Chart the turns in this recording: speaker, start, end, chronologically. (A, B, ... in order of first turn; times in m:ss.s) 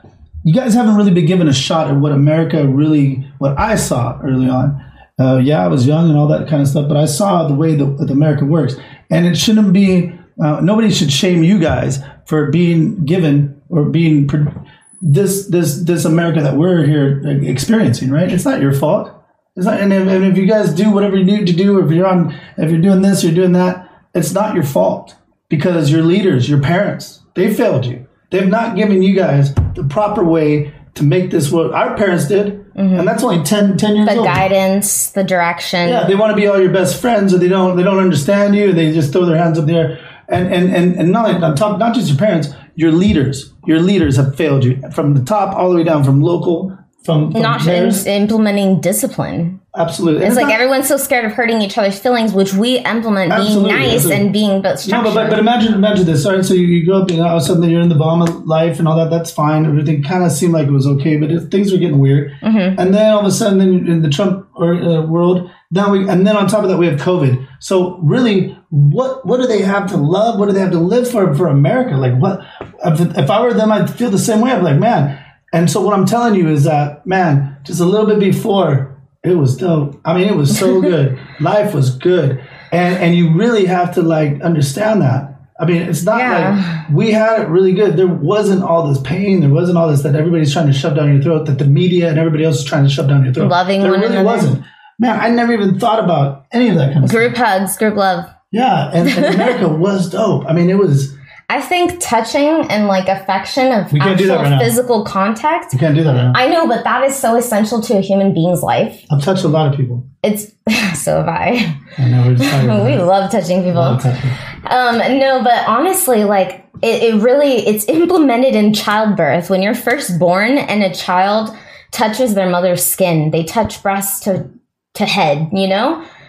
0:00.4-0:34.5 A
0:32.8-0:33.2 B
0:34.0-0:36.1 B
0:35.8-0:48.0 A
0:47.3-0:49.6 B
0:49.7-0:50.6 A
0:50.2-0:55.4 B
0:53.3-0:54.3 A
0:54.8-1:37.3 A
1:02.4-1:02.8 B
1:26.1-1:26.8 B
1:33.4-1:34.5 B
1:37.0-1:38.3 B
1:38.5-1:41.1 A
1:39.1-1:39.5 B
1:41.5-1:45.8 B
1:43.9-1:44.8 A
1:45.7-1:46.4 A
1:46.3-1:49.0 B
1:49.1-1:50.1 A
1:50.2-1:51.8 B
1:52.0-1:53.0 A
1:52.4-1:54.0 B
1:53.7-1:54.4 A
1:54.7-2:06.0 B